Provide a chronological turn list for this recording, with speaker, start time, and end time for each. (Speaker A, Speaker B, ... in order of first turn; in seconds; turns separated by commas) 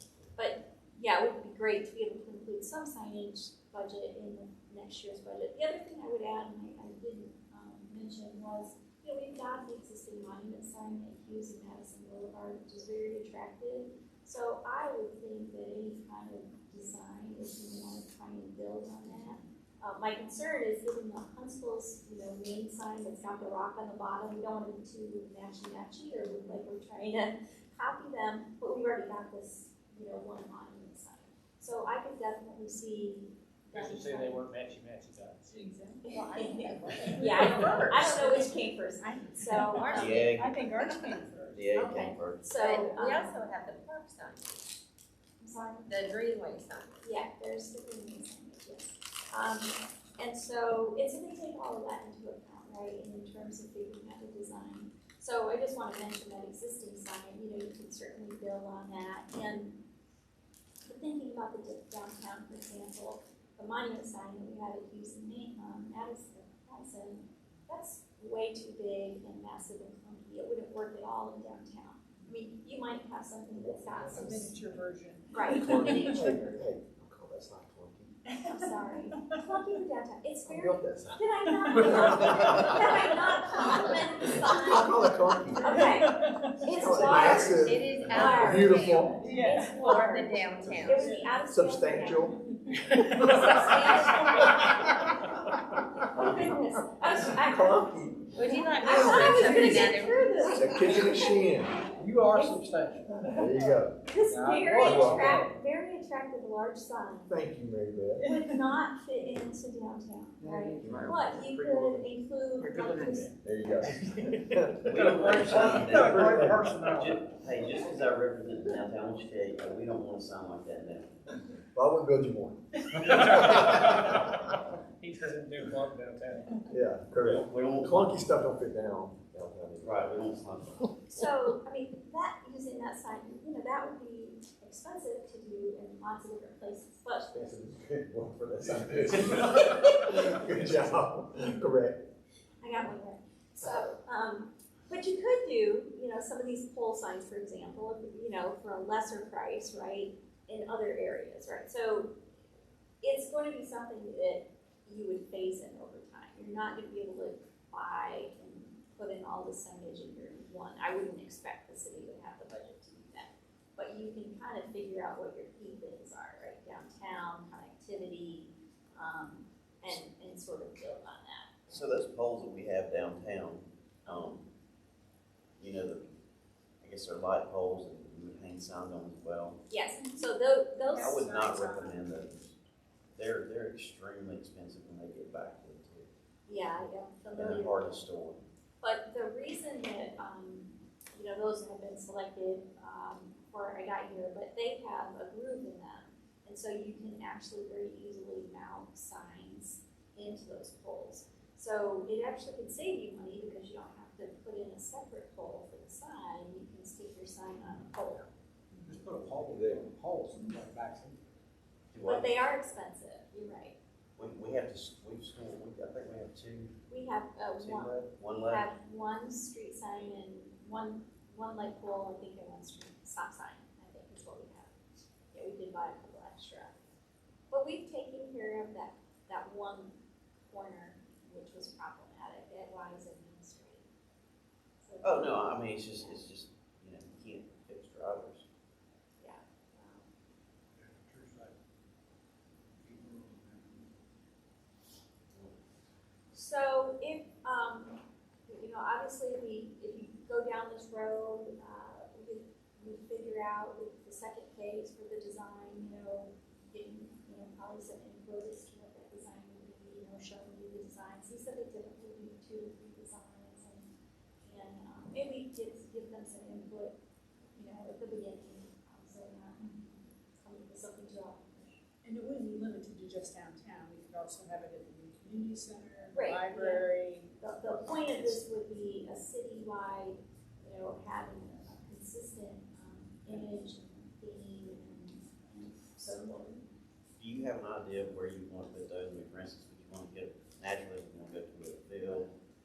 Speaker A: 0.4-34.4, Speaker B: 33.7-35.5, Speaker C: 35.5-41.7, Speaker D: 36.1-38.2, Speaker A: 37.0-40.3, Speaker D: 39.6-40.4, Speaker E: 39.9-42.8, Speaker A: 41.7-43.4, Speaker D: 42.6-44.7, Speaker A: 45.4-46.1, Speaker D: 45.9-47.0, Speaker A: 47.0-59.8, Speaker A: 60.8-74.5, Speaker F: 73.5-74.6, Speaker C: 74.1-76.3, Speaker A: 75.3-76.6, Speaker F: 75.5-78.1, Speaker A: 78.4-92.4, Speaker C: 78.5-79.4, Speaker F: 80.5-86.1, Speaker C: 85.7-86.5, Speaker F: 86.6-89.3, Speaker D: 86.9-91.2, Speaker C: 89.2-89.8, Speaker F: 90.7-91.0, Speaker F: 91.5-92.4, Speaker B: 92.9-94.2, Speaker A: 93.1-95.3, Speaker A: 96.0-102.7, Speaker F: 96.2-96.5, Speaker F: 97.2-101.8, Speaker D: 98.3-101.0, Speaker B: 102.0-103.5, Speaker F: 103.3-104.0, Speaker A: 104.1-107.3, Speaker B: 104.2-105.5, Speaker F: 104.8-105.4, Speaker F: 107.3-108.3, Speaker A: 108.2-113.3, Speaker B: 110.4-112.1, Speaker F: 110.8-111.2, Speaker E: 110.8-111.2, Speaker B: 112.6-113.3, Speaker F: 113.4-116.7, Speaker B: 114.0-117.2, Speaker E: 114.8-121.1, Speaker F: 121.7-122.6, Speaker B: 123.0-124.2, Speaker F: 123.3-124.0, Speaker B: 125.0-126.6, Speaker F: 126.7-130.2, Speaker E: 127.2-128.1, Speaker E: 129.8-130.9, Speaker A: 131.1-137.3, Speaker F: 137.3-142.0, Speaker A: 139.3-140.4, Speaker A: 142.6-152.2, Speaker A: 153.0-171.6, Speaker E: 171.7-174.4, Speaker A: 174.1-174.4, Speaker E: 175.6-176.1, Speaker E: 176.8-179.6, Speaker A: 179.7-181.9, Speaker E: 180.9-182.6, Speaker C: 181.6-181.9, Speaker E: 183.2-186.1, Speaker A: 186.5-188.0, Speaker E: 187.3-188.4, Speaker A: 188.8-208.3, Speaker B: 208.8-211.2, Speaker F: 209.5-209.8, Speaker E: 211.9-212.3, Speaker A: 212.0-213.8, Speaker E: 214.2-216.7, Speaker A: 216.9-224.7, Speaker E: 217.6-218.7, Speaker A: 225.3-226.7, Speaker A: 227.5-233.9, Speaker A: 234.8-236.2, Speaker E: 235.0-238.4, Speaker A: 239.2-240.1, Speaker B: 240.8-241.5, Speaker B: 242.8-243.7, Speaker A: 246.3-263.9, Speaker A: 264.4-267.0, Speaker A: 267.6-271.8, Speaker C: 272.0-277.3, Speaker A: 276.1-286.6, Speaker E: 287.2-292.3